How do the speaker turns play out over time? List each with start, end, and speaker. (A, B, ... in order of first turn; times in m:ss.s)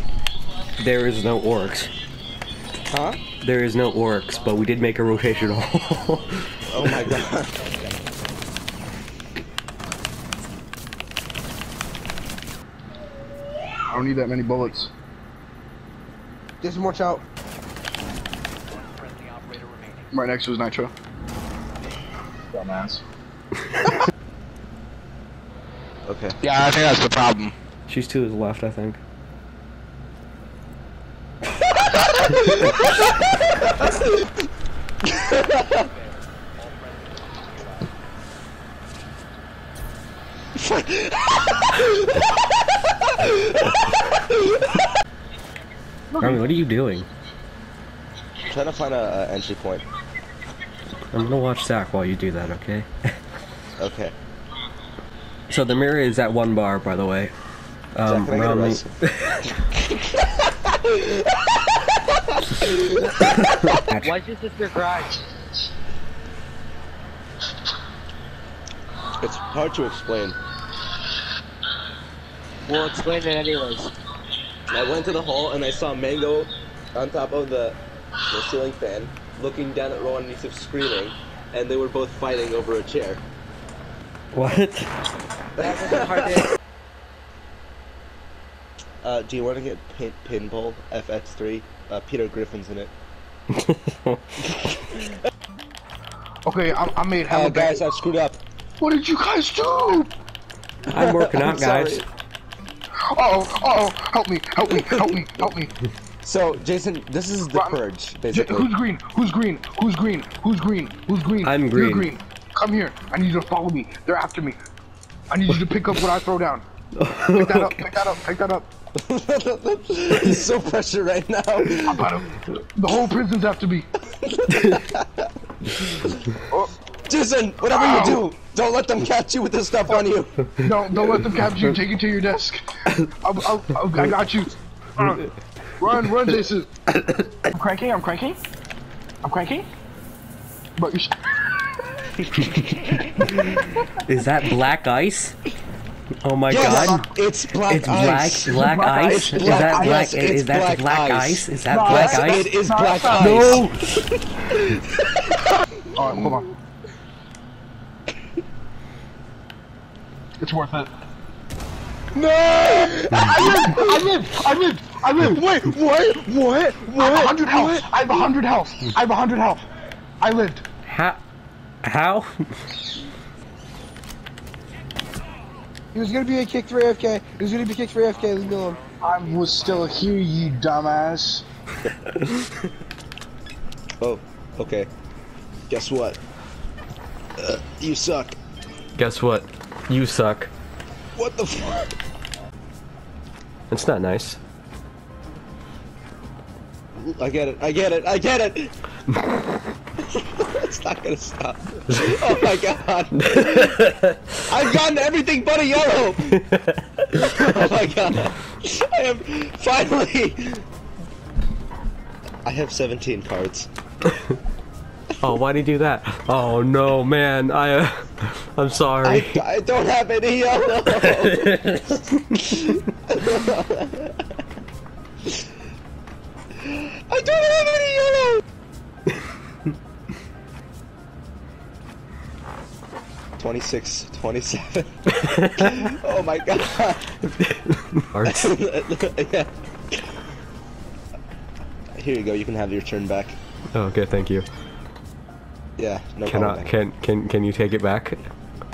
0:00.8-0:01.9 A
0:02.9-0:03.2 B
0:03.4-0:07.1 A
0:06.7-0:07.7 B
0:13.9-0:14.9 C
0:16.6-0:17.2 D
0:20.1-0:20.9 C
0:22.5-0:23.0 C
0:26.1-0:26.4 B
0:26.4-0:27.5 C
0:27.9-0:29.0 A
0:31.8-0:34.2 B
0:35.0-0:35.9 B
0:40.6-0:42.1 B
0:43.2-0:43.7 B
0:46.1-0:46.5 C
0:46.2-0:47.1 A
0:48.4-0:49.8 B
0:51.1-0:53.2 A
0:53.8-0:54.1 B
0:55.5-0:57.3 A
0:57.9-0:59.5 A
0:58.0-0:58.9 B
1:03.2-1:04.2 A
1:04.1-1:05.2 E
1:09.2-1:10.4 B
1:12.7-1:13.9 E
1:14.7-1:23.2 B
1:24.3-1:24.9 A
1:25.6-1:26.5 B
1:25.7-1:26.4 E
1:29.0-1:32.9 B
1:33.6-1:34.5 A
1:36.4-1:37.8 C
1:37.3-1:38.4 B
1:38.8-1:40.1 C
1:40.9-1:42.0 B
1:40.9-1:42.0 A
1:43.1-1:45.7 C
1:46.2-1:48.7 B
1:48.3-1:54.6 C
1:51.4-1:52.1 A
1:55.3-1:56.6 C
1:57.0-1:57.8 A
1:57.3-1:58.7 C
1:58.9-2:02.2 B
2:01.6-2:03.9 C
2:04.2-2:05.3 B
2:04.5-2:04.8 A
2:07.1-2:10.4 B
2:07.7-2:08.2 C
2:10.6-2:16.7 C
2:17.4-2:18.4 C
2:19.2-2:19.7 C
2:20.8-2:21.1 C
2:22.2-2:23.1 B
2:23.2-2:25.3 A
2:26.2-2:32.5 A
2:26.5-2:33.7 B
2:28.5-2:30.1 C
2:31.7-2:33.6 C
2:33.2-2:33.9 A
2:35.9-2:36.5 C
2:40.4-2:40.9 C
2:42.1-2:44.3 D
2:43.1-2:43.6 A
2:43.1-2:45.4 C
2:45.2-2:47.8 D
2:46.9-2:49.6 C
2:50.2-2:50.6 C
2:50.8-2:51.2 A
2:51.8-2:52.3 A
2:55.9-2:58.8 D
2:59.0-3:01.4 C
3:04.0-3:04.9 B
3:05.7-3:06.2 B
3:07.4-3:08.4 B
3:09.0-3:10.5 A
3:11.2-3:11.9 B
3:13.7-3:14.4 A
3:17.0-3:18.7 B
3:20.0-3:23.8 B
3:22.0-3:22.4 A
3:23.2-3:24.2 A
3:24.5-3:26.4 B
3:26.4-3:27.0 A
3:27.1-3:30.6 B
3:32.4-3:33.7 B
3:35.2-3:39.4 A
3:39.0-3:41.6 B
3:41.2-3:42.4 A
3:42.5-3:44.2 B
3:46.6-3:48.4 B
3:53.4-3:57.2 B
3:55.3-3:55.8 A
3:57.4-3:58.5 A
3:58.2-3:59.5 B
4:01.9-4:03.4 B
4:03.7-4:04.4 A
4:05.8-4:06.7 B
4:06.3-4:08.3 A